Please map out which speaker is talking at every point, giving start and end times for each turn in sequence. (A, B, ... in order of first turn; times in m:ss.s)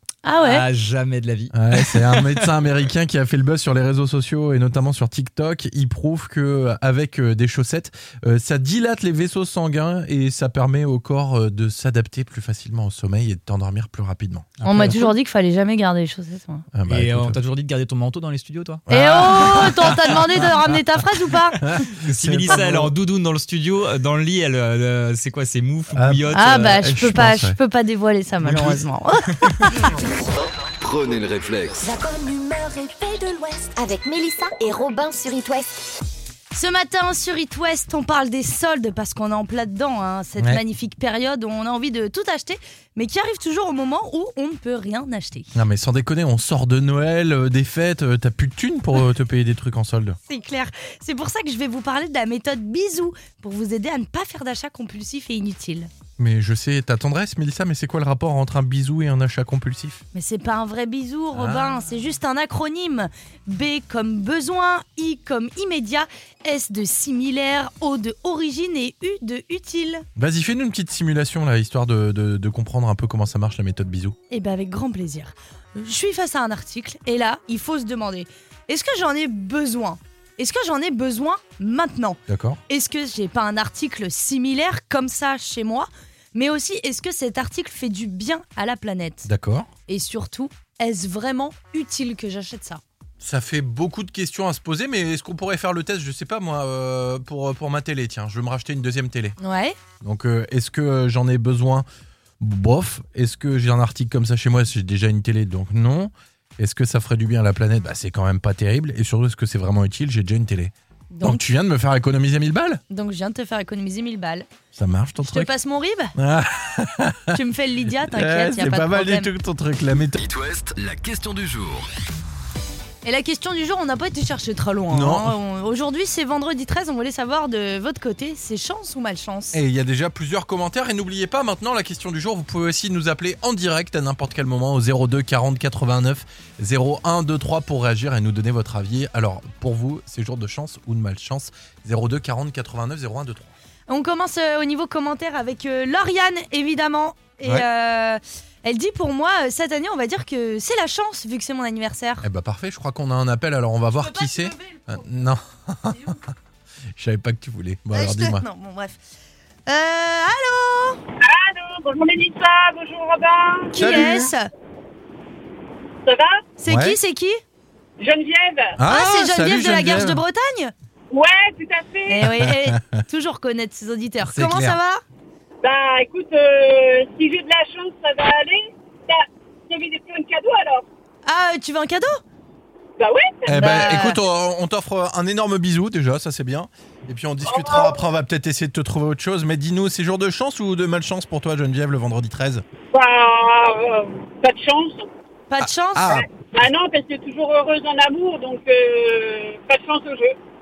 0:00.2-0:00.7 A
0:00.4-0:02.5 B
0:01.5-0:14.6 C
0:14.6-0:15.1 B
0:14.6-0:16.6 A
0:16.7-0:17.4 C
0:16.9-0:18.8 B
0:18.9-0:20.4 C
0:18.9-0:21.8 A
0:21.6-0:22.9 C
0:21.9-0:26.8 B
0:25.9-0:27.6 C
0:26.3-0:29.9 A
0:28.5-0:28.7 C
0:30.8-0:31.9 D
0:31.8-0:36.0 E
0:36.5-0:45.6 A
0:45.5-0:50.2 C
0:50.3-0:55.9 A
0:56.2-1:00.0 C
1:00.1-1:10.1 A
1:01.3-1:01.8 C
1:10.2-1:14.2 C
1:14.3-1:29.3 A
1:22.3-1:22.6 C
1:29.2-1:29.7 C
1:29.9-1:32.8 A
1:33.2-1:39.4 C
1:39.4-1:39.8 A
1:40.0-1:41.9 C
1:42.4-1:52.8 C
1:51.1-1:51.4 A
1:52.9-1:54.5 A
1:54.7-1:55.5 C
1:55.2-1:56.2 A
1:56.2-1:57.4 C
1:57.3-1:59.3 A
1:58.1-2:00.2 C
2:00.2-2:01.9 D
2:03.0-2:09.6 A
2:04.9-2:05.4 C
2:09.5-2:23.5 C
2:23.9-2:32.2 A
2:32.2-2:36.3 C
2:34.0-2:34.9 A
2:37.0-2:38.4 C
2:37.9-2:39.0 A
2:39.7-2:41.0 A
2:41.2-2:43.9 F
2:43.7-2:44.5 A
2:43.8-2:44.3 C
2:46.0-2:46.4 F
2:46.6-2:47.4 A
2:46.7-2:47.0 C
2:48.0-2:48.7 F
2:48.8-2:50.2 C
2:48.8-2:50.7 A
2:51.1-2:52.2 F
2:52.1-2:55.0 A
2:52.2-2:53.0 C
2:54.2-2:54.8 C
2:55.6-3:00.9 F
3:01.3-3:02.2 A
3:03.0-3:04.0 F
3:03.5-3:12.6 C
3:03.5-3:04.2 A
3:07.4-3:08.0 F
3:12.9-3:15.1 F
3:15.5-3:16.2 A
3:15.6-3:16.3 C
3:16.1-3:20.4 F